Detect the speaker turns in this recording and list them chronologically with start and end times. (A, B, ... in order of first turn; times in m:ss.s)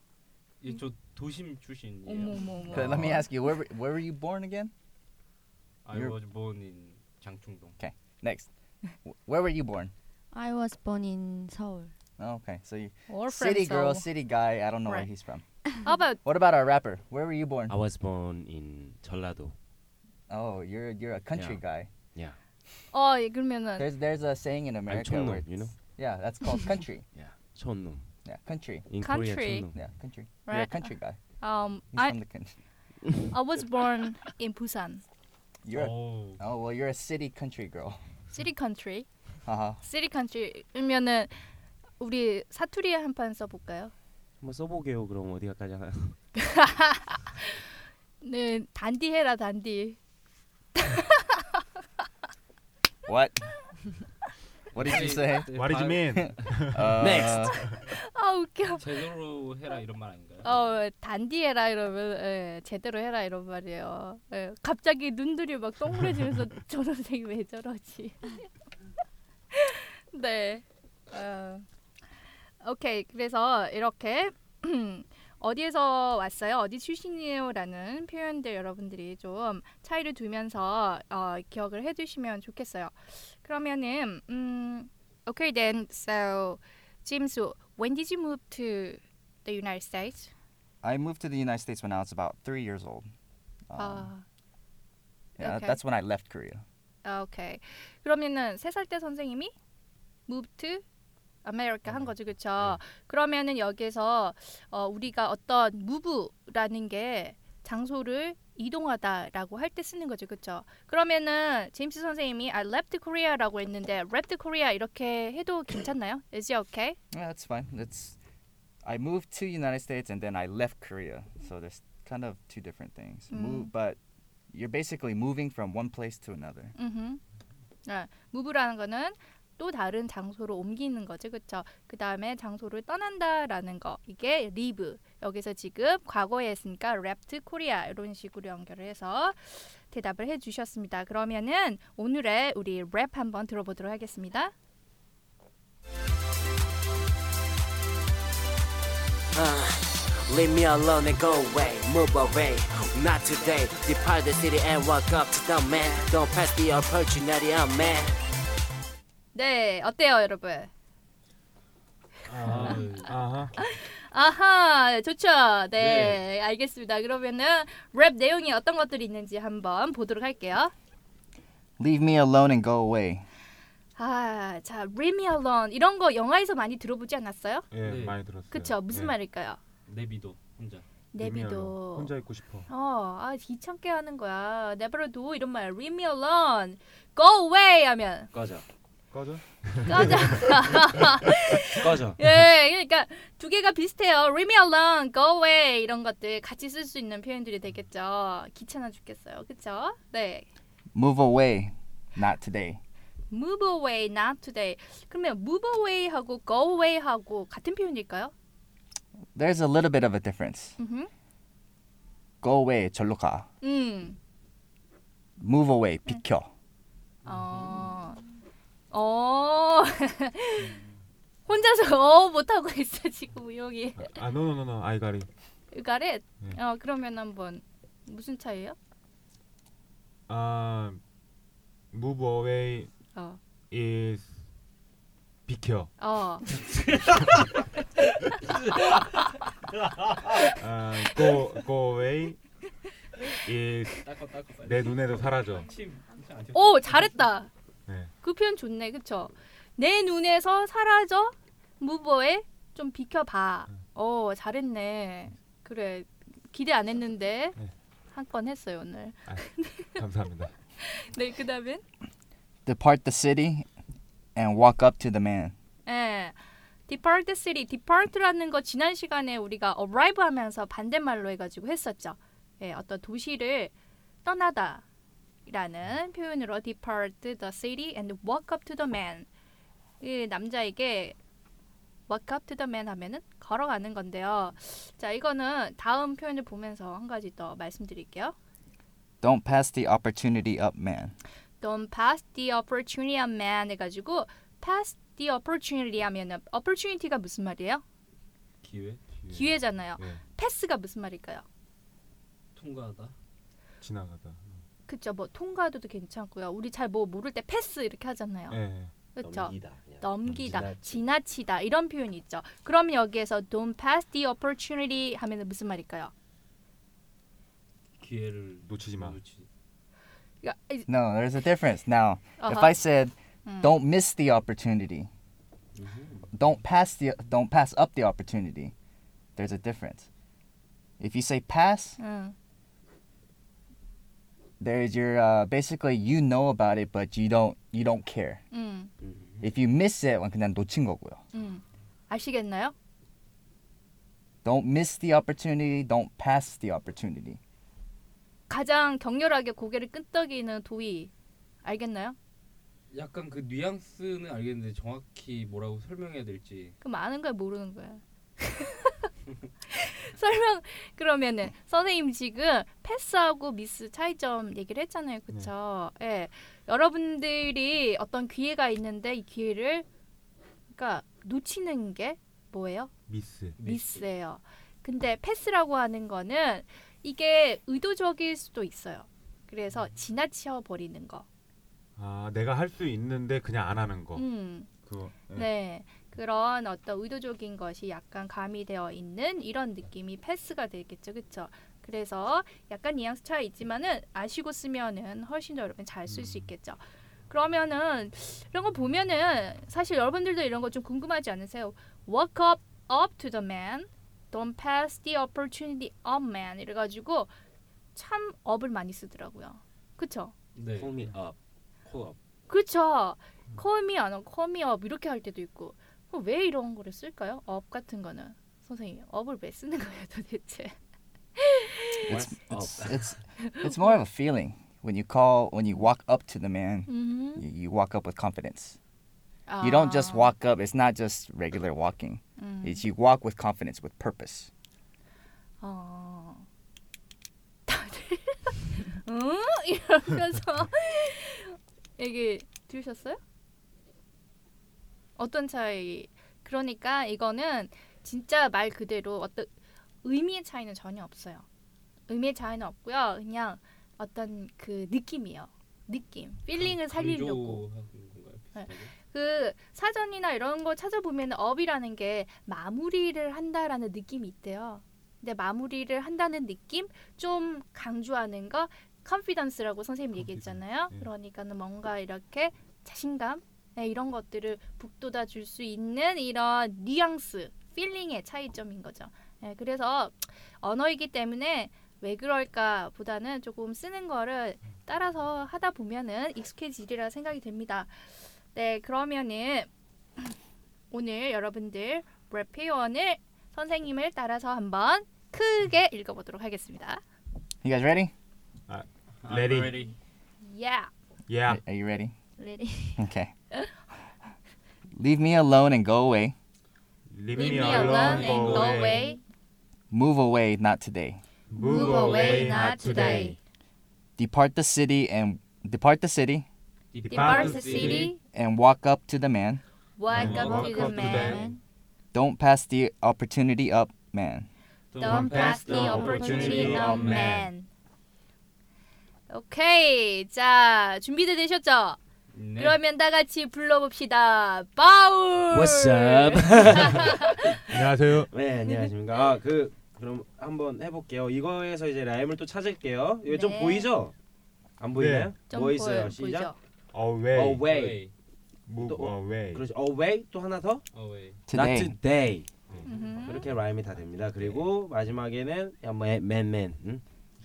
0:00.6-0:03.2 A
0:02.0-0:03.3 B
0:02.7-0:04.7 C
0:05.8-0:07.8 A
0:05.9-0:06.2 C
0:07.8-0:08.5 C
0:09.0-0:09.9 C
0:10.3-0:11.9 D
0:12.2-0:15.4 C
0:13.1-0:14.1 B
0:15.8-0:16.2 B
0:16.2-0:17.8 C
0:17.7-0:19.6 E
0:20.3-0:21.9 C
0:21.3-0:21.6 E
0:22.9-0:23.9 B
0:23.8-0:27.1 C
0:24.9-0:25.8 E
0:27.1-0:28.1 E
0:28.2-0:28.9 C
0:28.9-0:29.8 E
0:29.0-0:29.7 B
0:29.7-0:31.2 C
0:30.5-0:32.2 B
0:31.9-0:32.6 C
0:33.3-0:35.0 B
0:35.6-0:38.0 C
0:35.7-0:36.4 A
0:38.3-0:39.1 B
0:39.4-0:39.8 C
0:39.8-0:41.5 B
0:42.0-0:43.9 B
0:44.4-0:46.2 E
0:46.4-0:47.6 B
0:48.2-0:50.0 B
0:50.8-0:51.6 B
0:53.1-0:53.5 C
0:54.7-0:56.7 A
0:54.7-0:57.6 C
0:55.5-0:57.8 F
0:57.0-0:57.6 E
0:57.9-0:58.9 B
0:58.8-1:00.7 A
1:00.4-1:08.5 B
1:09.5-1:11.6 B
1:12.6-1:30.3 B
1:30.8-1:33.1 C
1:33.7-1:34.1 C
1:33.8-1:34.2 B
1:35.4-1:35.8 B
1:35.4-1:36.6 C
1:37.0-1:39.5 B
1:40.3-1:40.8 B
1:41.4-1:57.0 B
1:57.1-1:58.2 C
1:58.8-2:04.0 C
2:03.3-2:03.7 B
2:04.5-2:06.7 C
2:06.8-2:07.2 B
2:07.9-2:24.5 B
2:29.3-2:38.2 G
2:39.3-2:40.7 B
2:42.3-2:43.3 A
2:42.4-2:43.6 F
2:42.5-2:50.7 B
2:45.8-2:46.2 A
2:51.8-2:53.3 C
2:54.0-2:57.7 B
2:57.7-2:59.2 F
2:57.8-2:58.2 A
2:58.5-2:59.6 B
2:59.9-3:00.9 A
3:01.1-3:02.1 B
3:01.2-3:02.7 F
3:02.7-3:08.3 B
3:08.3-3:08.6 E
3:09.1-3:11.2 F
3:09.8-3:20.5 B
3:11.8-3:12.2 E
3:20.9-3:22.8 C
3:23.3-3:28.3 B
3:29.4-3:30.8 C
3:30.8-3:31.1 B
3:32.4-3:33.5 C
3:33.6-3:34.2 B
3:35.4-3:36.5 C
3:37.2-3:37.9 A
3:37.3-3:38.2 B
3:38.9-3:40.8 B
3:41.5-3:44.1 B
3:44.0-3:45.3 F
3:45.7-3:48.8 B
3:50.3-3:51.0 F
3:51.9-3:52.9 F
3:53.7-3:54.3 F
3:55.5-3:55.9 F
3:56.0-3:56.5 B
3:56.6-3:57.6 A
3:58.4-4:00.6 A
4:00.6-4:02.4 F
4:03.4-4:04.1 F
4:04.0-4:07.3 A
4:04.6-4:05.7 F
4:06.5-4:07.5 B
4:08.2-4:17.6 B
4:18.1-4:20.0 B
4:19.3-4:20.5 F
4:20.8-4:21.8 B
4:22.7-4:23.7 C
4:24.4-4:25.6 C
4:25.9-4:26.4 B
4:26.9-4:33.7 B
4:34.2-4:34.8 B
4:35.5-4:39.3 B
4:40.0-4:41.2 B
4:42.1-4:48.4 B
4:49.2-4:51.2 C
4:51.6-4:57.8 B
4:58.6-4:59.0 A
4:59.2-5:00.2 F
4:59.3-5:01.4 B
5:02.6-5:03.2 A
5:03.8-5:04.6 F
5:04.9-5:08.6 B
5:08.5-5:08.9 F
5:09.2-5:16.1 B
5:09.2-5:11.0 E
5:10.3-5:10.7 F
5:18.0-5:19.5 A
5:18.6-5:19.2 F
5:20.4-5:20.9 B
5:20.9-5:25.1 C
5:22.4-5:22.8 B
5:23.4-5:23.8 B
5:25.8-5:26.2 A
5:26.3-5:28.7 C
5:29.4-5:30.1 C
5:31.0-5:32.0 C
5:32.0-5:32.4 B
5:34.6-5:38.4 C
5:38.5-5:38.9 B
5:39.0-5:39.4 E
5:39.4-5:41.2 C
5:41.3-5:42.7 B
5:44.4-5:47.4 C
5:48.5-5:51.1 B
5:51.6-5:52.2 B
5:52.9-5:56.8 A
5:56.8-5:59.1 B
5:59.7-6:09.9 B
6:10.7-6:12.9 B
6:13.1-6:13.6 F
6:13.6-6:14.0 A
6:13.6-6:21.3 B
6:22.0-6:25.5 F
6:24.2-6:24.7 B
6:25.3-6:36.8 B
6:36.1-6:36.5 F
6:37.3-6:47.3 B
6:48.0-6:50.3 B
6:50.6-6:50.9 A
6:50.8-6:52.2 E
6:52.5-7:00.7 B
7:01.4-7:02.1 B
7:02.1-7:08.8 C
7:02.1-7:03.1 E
7:03.4-7:04.0 B
7:06.9-7:07.5 B
7:09.5-7:10.4 B
7:09.6-7:14.5 C
7:12.4-7:12.8 B
7:15.6-7:16.4 B
7:17.7-7:23.2 B
7:25.2-7:29.5 B
7:30.0-7:31.5 B
7:32.1-7:37.6 B
7:36.5-7:38.9 A
7:38.6-8:10.3 B
7:50.2-7:51.1 F
8:10.9-8:17.0 B
8:17.6-8:18.1 C
8:18.7-8:19.8 F
8:19.2-8:20.0 A
8:20.4-8:20.9 B
8:21.3-8:21.6 F
8:21.5-8:22.1 C
8:22.4-8:23.1 D
8:23.0-8:23.3 C
8:24.9-8:26.4 C
8:27.1-8:29.0 F
8:27.3-8:29.2 B
8:27.4-8:29.0 A
8:29.9-8:31.2 C
8:31.5-8:33.4 F
8:31.6-8:33.4 B
8:32.0-8:32.4 A
8:34.2-8:36.5 C
8:36.9-8:38.2 A
8:37.0-8:38.1 F
8:37.1-8:38.2 B
8:38.2-8:39.6 C
8:40.0-8:41.5 B
8:40.1-8:41.5 F
8:40.1-8:41.5 A
8:40.8-8:41.6 D
8:42.1-8:44.5 C
8:44.9-8:47.4 A
8:45.0-8:47.7 B
8:45.0-8:47.4 F
8:45.2-8:47.2 D
8:49.3-8:52.0 B
8:52.3-8:52.8 A
8:52.6-8:57.8 B
8:55.5-8:57.3 E
8:57.7-8:58.3 F
8:58.3-9:04.1 E
8:58.6-8:58.9 B
9:03.3-9:03.9 B
9:04.8-9:06.5 E
9:04.9-9:05.3 F
9:05.5-9:06.6 B
9:06.9-9:07.7 F
9:07.3-9:08.0 E
9:07.7-9:08.1 A
9:08.7-9:09.6 F
9:08.8-9:10.9 E
9:10.9-9:11.4 A
9:11.5-9:12.0 C
9:11.5-9:17.0 E
9:12.7-9:13.5 A
9:12.9-9:13.5 B